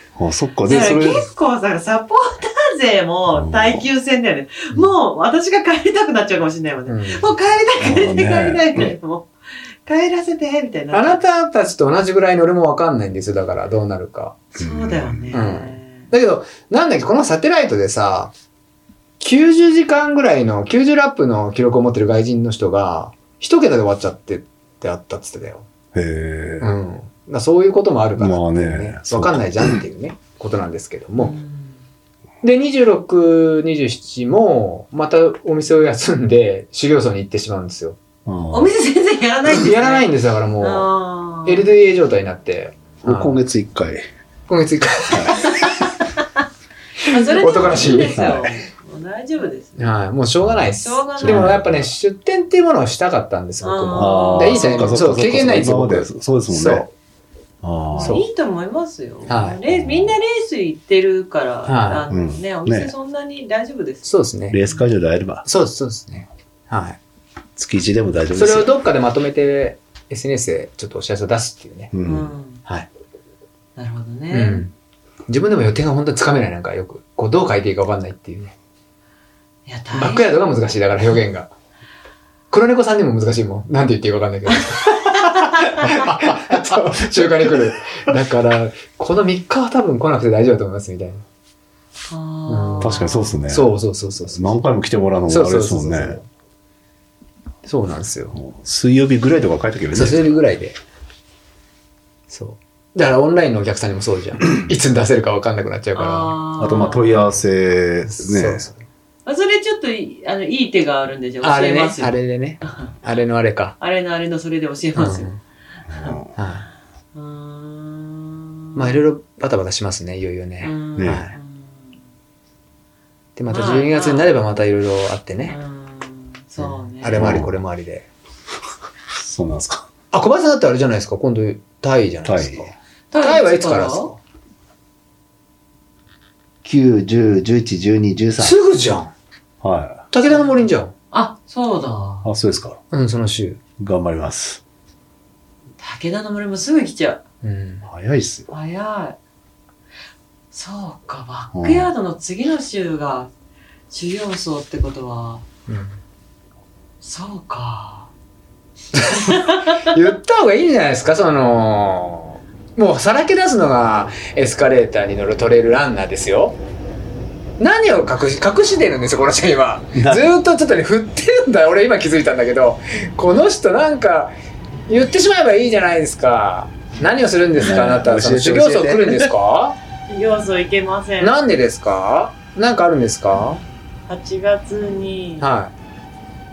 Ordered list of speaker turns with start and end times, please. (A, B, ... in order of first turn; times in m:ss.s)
0:00.1-0:01.2 A
0:00.6-0:09.3 B
0:03.3-0:03.8 A
0:06.9-0:07.3 C
0:07.8-0:08.9 A
0:09.8-0:11.2 B
0:10.9-0:14.4 C
0:14.5-0:16.1 B
0:14.6-0:15.3 A
0:15.3-0:18.3 C
0:19.2-0:25.7 C
0:25.9-0:26.7 A
0:26.6-0:31.3 C
0:28.2-0:29.8 A
0:31.2-0:31.8 B
0:32.4-0:38.0 C
0:38.2-0:38.7 A
0:38.5-0:40.1 B
0:39.5-0:40.9 C
0:40.6-0:41.7 B
0:41.4-0:43.4 C
0:43.0-0:44.0 A
0:44.5-0:45.7 C
0:45.1-0:45.5 A
0:47.0-0:49.9 B
0:47.0-0:48.2 C
0:47.5-0:48.6 A
0:49.8-0:56.9 C
0:50.8-0:51.6 B
0:51.2-0:51.9 A
0:53.6-0:55.0 B
0:53.9-0:56.9 A
0:57.6-0:58.2 A
0:57.9-1:04.1 B
0:58.0-0:58.2 C
0:59.3-0:59.6 C
0:59.7-1:00.2 A
1:01.6-1:02.1 C
1:02.1-1:02.9 A
1:04.0-1:04.6 C
1:04.5-1:05.4 A
1:05.4-1:07.0 C
1:07.6-1:08.7 A
1:08.3-1:11.9 C
1:11.9-1:12.3 A
1:12.0-1:12.6 B
1:13.8-1:14.6 B
1:14.3-1:14.7 C
1:15.3-1:18.5 C
1:19.6-1:20.2 B
1:19.9-1:21.5 C
1:22.5-1:31.2 C
1:26.9-1:27.5 A
1:32.1-1:33.4 B
1:32.5-1:34.5 C
1:32.8-1:36.2 A
1:35.3-1:36.2 C
1:37.6-1:38.4 C
1:38.3-1:40.3 A
1:39.9-1:40.8 C
1:42.3-1:46.3 C
1:45.9-1:47.3 B
1:46.6-1:48.7 A
1:48.0-1:48.8 C
1:49.2-1:52.9 B
1:51.4-1:53.8 C
1:53.8-1:55.4 B
1:55.0-1:55.4 C
1:55.9-1:56.3 A
1:56.4-1:56.6 C
1:57.1-1:59.0 B
1:58.7-2:01.3 C
2:00.6-2:01.9 B
2:01.0-2:01.2 A
2:03.4-2:05.6 C
2:03.5-2:04.3 B
2:05.5-2:07.3 B
2:07.0-2:08.1 C
2:07.2-2:07.5 A
2:09.2-2:09.9 A
2:10.1-2:14.2 C
2:12.2-2:12.7 A
2:13.1-2:14.1 B
2:16.6-2:18.5 A
2:18.4-2:19.1 C
2:19.6-2:20.0 A
2:20.1-2:20.9 C
2:20.2-2:22.3 B
2:22.2-2:22.8 A
2:22.9-2:23.6 C
2:23.8-2:24.6 A
2:25.8-2:27.2 B
2:27.4-2:27.8 C
2:27.9-2:28.5 A
2:28.5-2:29.2 B
2:30.5-2:33.3 B
2:31.5-2:31.9 A
2:33.9-2:35.4 B
2:35.7-2:36.0 C
2:37.0-2:38.1 B
2:38.9-2:46.6 C
2:39.1-2:39.9 B
2:47.6-2:54.3 C
2:50.0-2:50.3 A
2:54.9-2:59.8 C
2:57.6-2:59.3 A
3:00.1-3:01.3 B
3:01.2-3:03.6 C
3:04.1-3:05.5 B
3:05.4-3:05.7 C